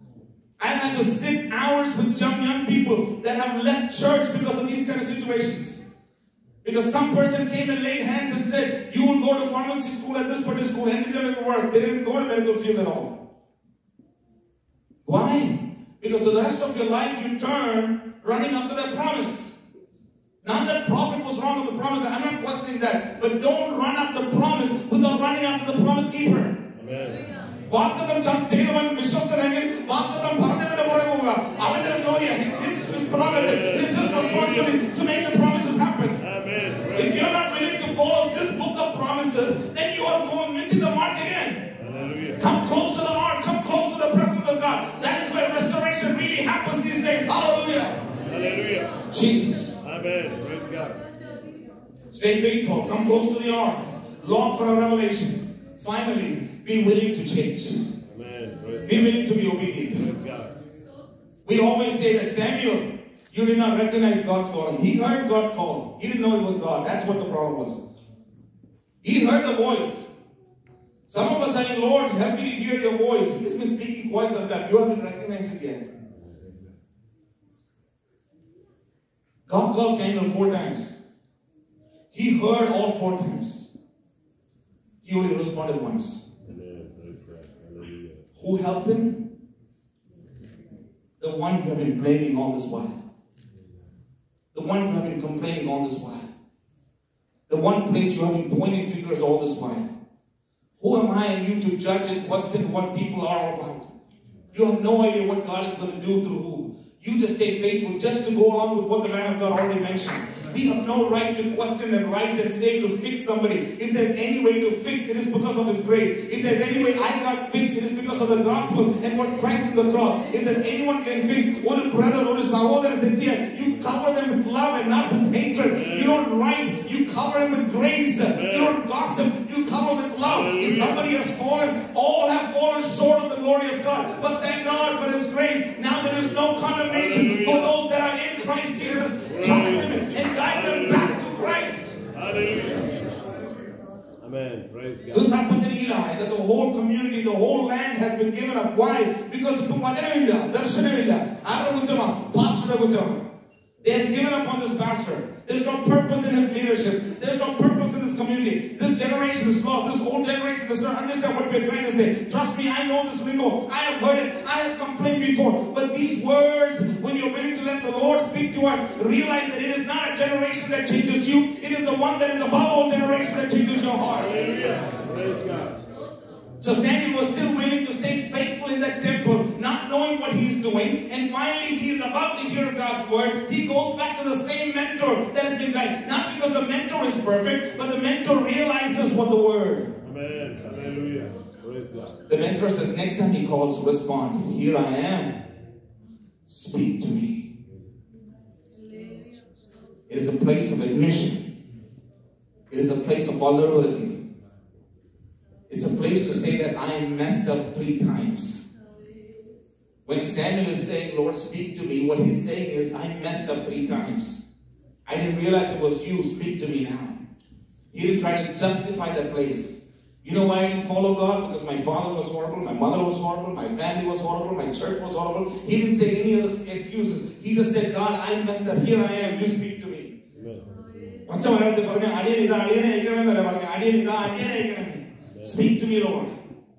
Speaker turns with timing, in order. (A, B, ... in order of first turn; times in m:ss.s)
0:00.6-0:05.8 A
0:06.6-0:13.2 A
0:15.0-0:19.5 A
0:20.4-0:26.6 A
0:26.8-0:27.2 B
0:27.7-0:36.2 A
0:33.4-0:34.7 B
0:36.2-0:37.2 B
0:36.9-0:41.7 A
0:41.8-0:42.4 B
0:42.4-0:48.0 A
0:48.2-0:49.0 B
0:49.1-0:49.8 A
0:49.8-0:51.0 B
0:52.1-0:57.8 A
0:58.1-0:59.1 B
0:58.9-1:00.1 A
1:00.0-1:00.5 B
1:01.4-1:07.8 A
1:09.0-1:10.1 A
1:11.1-1:15.9 A
1:19.5-1:21.0 A
1:22.1-1:23.7 A
1:25.0-1:26.2 A
1:26.4-1:28.2 B
1:28.4-1:29.3 A
1:31.2-1:33.0 A
1:34.5-1:36.3 A
1:37.5-1:39.8 A
1:40.8-1:43.9 A
1:44.5-2:22.0 A
2:05.8-2:06.1 B
2:08.4-2:08.7 B
2:10.4-2:10.9 B
2:16.9-2:17.7 B
2:19.3-2:19.8 B
2:20.5-2:21.0 B
2:22.1-2:23.0 B
2:24.2-2:25.2 B
2:25.1-2:33.2 A
2:33.8-2:54.4 A
2:54.3-2:55.8 B
2:56.6-3:10.0 A
3:10.0-3:12.2 B
3:12.3-3:15.4 A
3:16.4-3:17.5 A
3:20.1-3:21.4 A
3:22.7-3:24.2 A
3:25.7-3:28.6 A
3:30.0-3:34.4 A
3:35.1-3:37.2 A
3:37.9-3:50.1 A
3:50.4-3:50.6 B
3:51.2-3:56.3 A